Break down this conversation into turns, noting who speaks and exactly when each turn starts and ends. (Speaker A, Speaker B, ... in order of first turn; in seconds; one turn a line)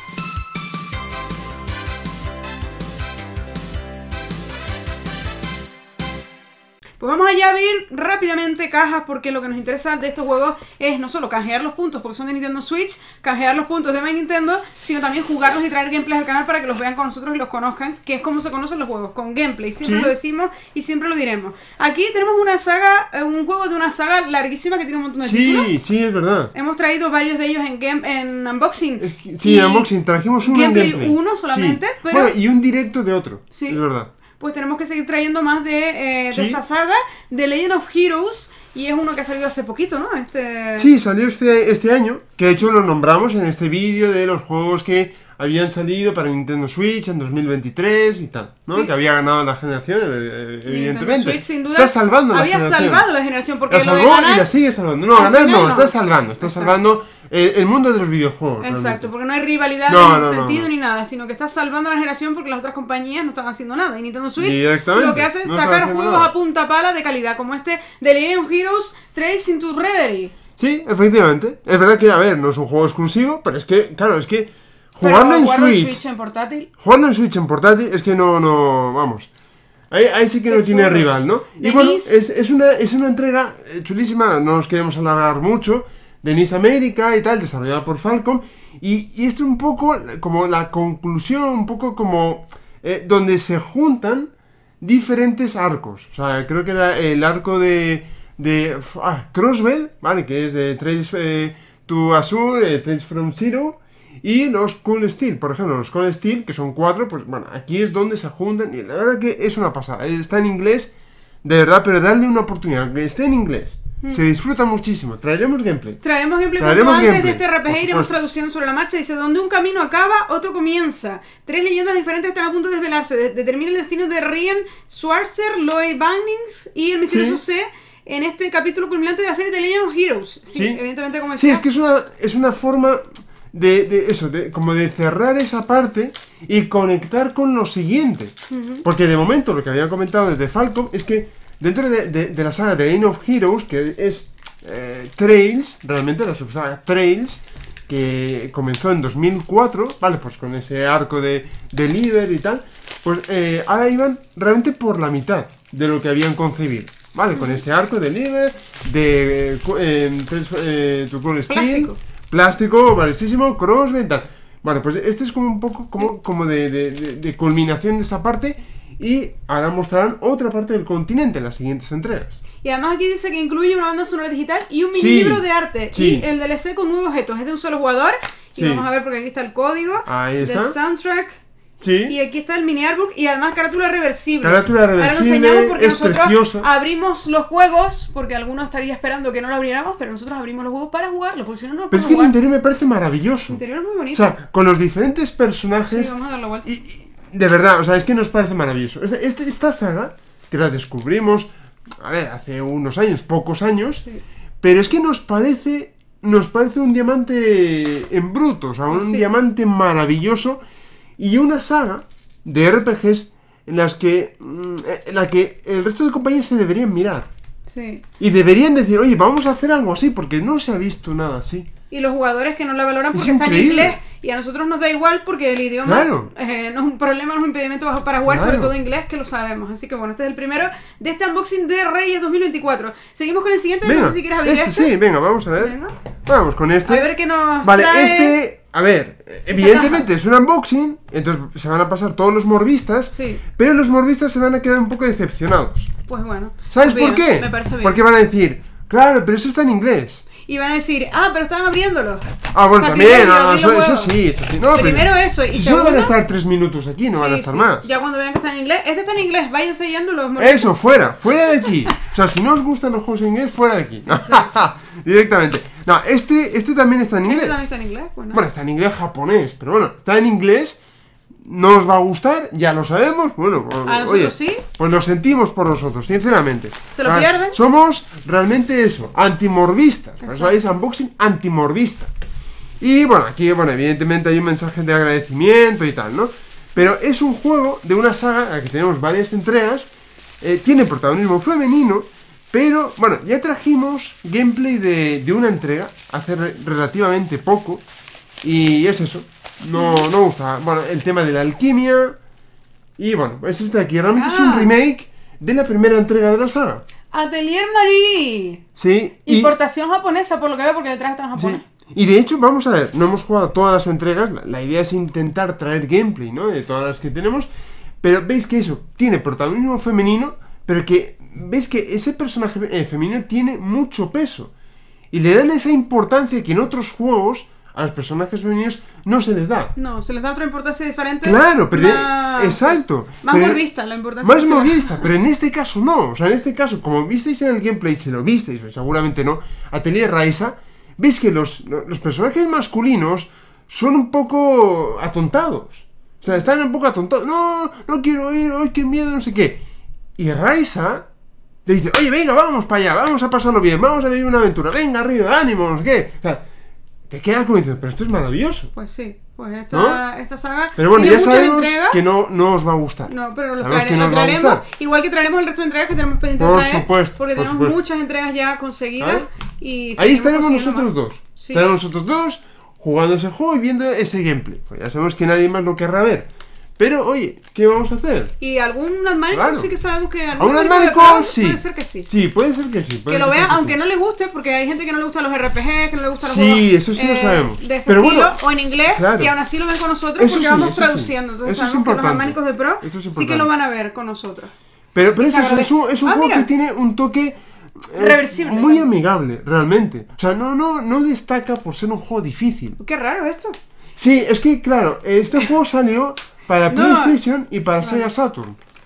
Speaker A: 7.0-25.7
Speaker B: 19.8-20.1
Speaker B: 25.2-26.5
Speaker A: 26.5-29.9
Speaker B: 29.0-34.1
Speaker A: 30.4-32.3
Speaker A: 33.5-33.8
Speaker A: 34.4-40.9
Speaker B: 36.3-36.6
Speaker B: 40.8-53.0
Speaker A: 50.6-54.5
Speaker B: 53.7-59.1
Speaker A: 55.1-56.8
Speaker A: 58.6-70.3
Speaker B: 59.9-60.7
Speaker B: 64.4-66.3
Speaker B: 70.6-76.0
Speaker A: 75.0-76.7
Speaker B: 76.8-79.3
Speaker B: 79.9-110.9
Speaker A: 80.5-82.2
Speaker B: 111.4-116.0
Speaker A: 116.0-131.6
Speaker B: 116.6-118.1
Speaker B: 127.1-127.4
Speaker B: 130.5-130.8
Speaker B: 131.4-172.4
Speaker A: 138.5-138.8
Speaker A: 157.3-157.6
Speaker A: 161.5-162.0
Speaker A: 172.6-181.4
Speaker B: 174.9-176.3
Speaker B: 178.6-178.8
Speaker B: 180.1-180.8
Speaker B: 181.8-182.1
Speaker A: 182.1-192.3
Speaker B: 184.4-186.7
Speaker B: 191.9-193.6
Speaker A: 193.5-194.3
Speaker B: 194.1-196.1
Speaker A: 195.9-196.7
Speaker B: 196.6-204.0
Speaker B: 204.6-210.6
Speaker A: 208.9-209.3
Speaker B: 211.2-217.3
Speaker A: 217.7-218.0
Speaker B: 218.2-221.7
Speaker A: 221.9-234.9
Speaker B: 223.1-224.0
Speaker B: 225.8-226.3
Speaker B: 228.2-228.7
Speaker B: 233.8-237.1
Speaker A: 235.6-235.9
Speaker A: 236.8-238.3
Speaker B: 237.6-245.9
Speaker A: 239.5-240.1
Speaker A: 243.1-243.4
Speaker A: 246.1-248.0
Speaker B: 246.7-250.2
Speaker A: 250.4-254.1
Speaker B: 252.5-257.9
Speaker A: 254.7-256.1
Speaker A: 257.1-260.8
Speaker B: 260.4-267.6
Speaker A: 264.1-264.5
Speaker A: 267.2-268.4
Speaker B: 268.3-270.8
Speaker B: 271.4-282.1
Speaker A: 273.9-274.6
Speaker A: 276.9-277.6
Speaker A: 280.2-280.6
Speaker B: 282.8-297.8
Speaker B: 298.4-302.2
Speaker A: 299.7-300.0
Speaker B: 303.0-306.8
Speaker A: 304.1-304.7
Speaker A: 307.1-308.6
Speaker B: 308.8-309.5
Speaker A: 309.2-311.6
Speaker B: 311.4-317.5
Speaker B: 318.0-324.5
Speaker B: 325.1-329.7
Speaker A: 329.8-335.1
Speaker B: 331.2-333.6
Speaker B: 334.2-349.6
Speaker B: 350.2-351.1
Speaker B: 351.6-356.4
Speaker B: 357.1-358.7
Speaker A: 358.7-362.0
Speaker B: 359.7-360.0
Speaker B: 360.8-364.6
Speaker A: 363.1-371.6
Speaker B: 366.4-367.8
Speaker B: 369.0-369.2
Speaker B: 370.0-378.3
Speaker A: 378.4-382.1
Speaker B: 379.3-379.7
Speaker B: 380.4-383.8
Speaker A: 383.1-394.5
Speaker B: 386.2-388.4
Speaker B: 388.9-389.3
Speaker B: 390.2-393.5
Speaker B: 394.9-402.8
Speaker A: 395.2-396.5
Speaker A: 397.9-398.9
Speaker A: 402.8-403.6
Speaker B: 404.0-408.6
Speaker A: 406.7-407.2
Speaker A: 407.8-408.1